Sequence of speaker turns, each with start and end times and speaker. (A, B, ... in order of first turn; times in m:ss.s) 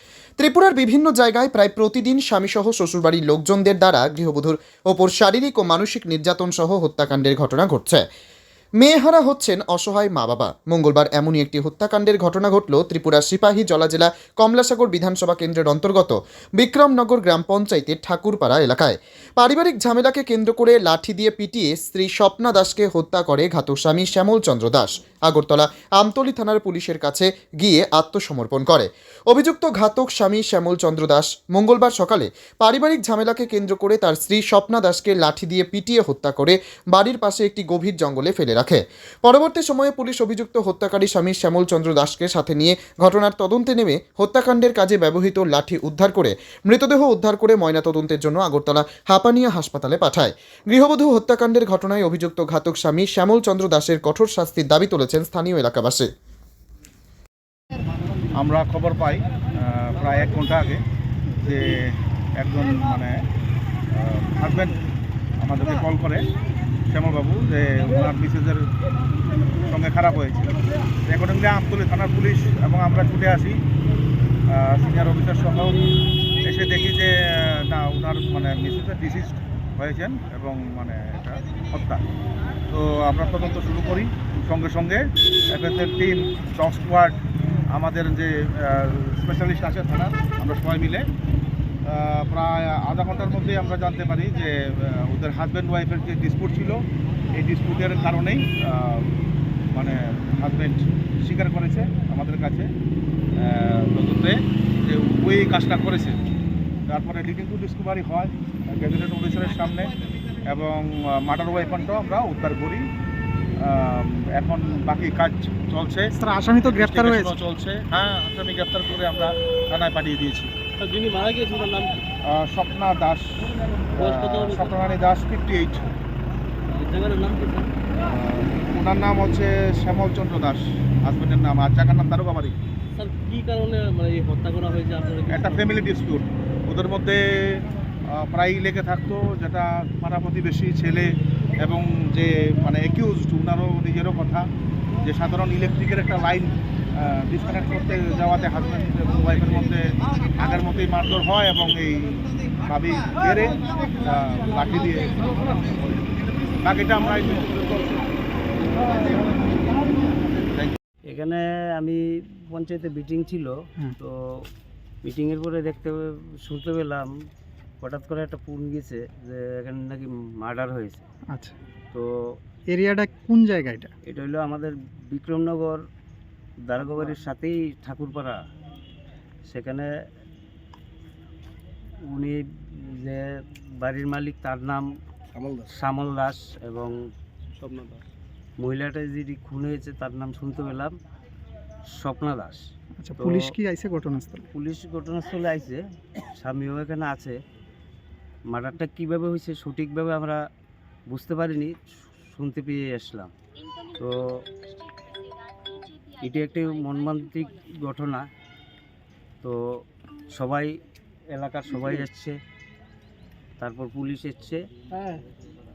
0:00.4-0:08.0 A
0:08.8-0:56.1 A
0:58.4-1:00.8 B
1:01.4-1:03.2 B
1:03.9-1:04.8 B
1:05.4-1:06.3 B
1:06.9-1:08.7 B
1:09.7-1:10.4 B
1:11.1-1:13.6 B
1:14.5-1:15.9 B
1:16.5-1:22.0 B
1:22.7-1:27.2 B
1:27.7-1:31.0 B
1:31.9-1:36.8 B
1:37.3-1:39.1 B
1:39.7-1:42.7 B
1:43.4-1:46.2 B
1:46.9-1:49.9 B
1:50.5-1:52.8 B
1:53.6-2:00.5 B
1:56.2-1:57.3 C
2:00.8-2:02.0 D
2:02.3-2:03.4 B
2:04.0-2:05.9 B
2:04.0-2:04.8 D
2:06.7-2:07.7 D
2:08.0-2:12.6 B
2:13.0-2:15.8 D
2:15.3-2:24.5 B
2:25.0-2:35.9 B
2:36.6-2:38.1 B
2:41.1-2:44.1 E
2:45.0-2:47.1 E
2:47.8-2:51.0 E
2:52.7-2:53.9 C
2:54.0-2:55.8 E
2:56.6-2:58.4 E
2:59.5-2:59.9 E
3:02.1-3:03.3 E
3:03.8-3:04.9 E
3:05.7-3:06.9 E
3:07.6-3:08.0 D
3:08.6-3:11.0 E
3:12.0-3:12.6 E
3:13.0-3:14.5 C
3:13.2-3:13.5 E
3:14.5-3:15.8 E
3:16.4-3:17.4 E
3:18.5-3:20.4 E
3:21.1-3:23.3 E
3:24.0-3:24.4 E
3:26.2-3:28.3 E
3:30.3-3:30.7 E
3:31.3-3:32.4 E
3:33.6-3:34.6 E